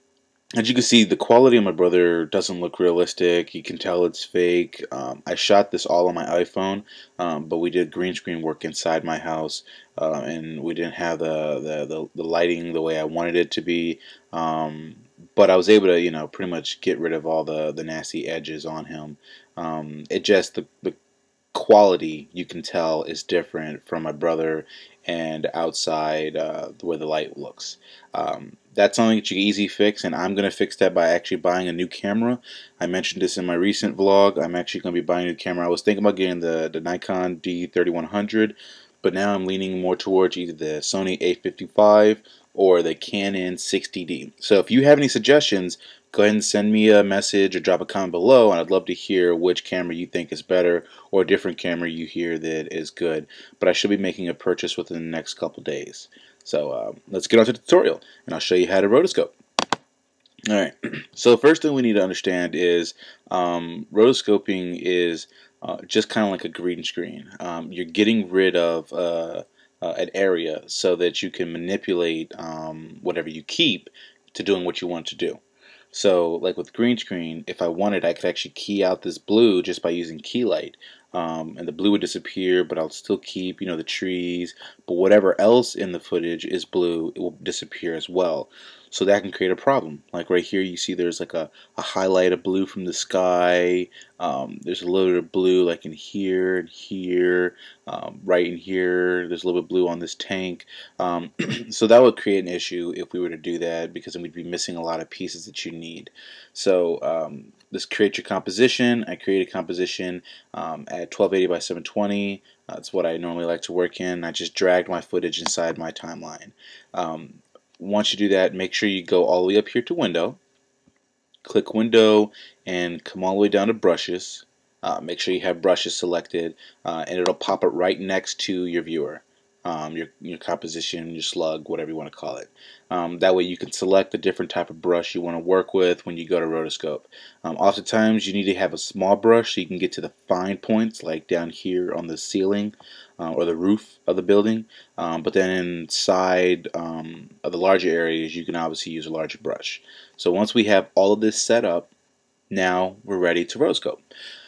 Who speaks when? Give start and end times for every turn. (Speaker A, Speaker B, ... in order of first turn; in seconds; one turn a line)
Speaker A: 0.6-21.0
Speaker A: 21.5-59.3
Speaker A: 60.5-75.4
Speaker A: 75.9-120.4
Speaker A: 121.4-151.9
Speaker A: 152.5-154.0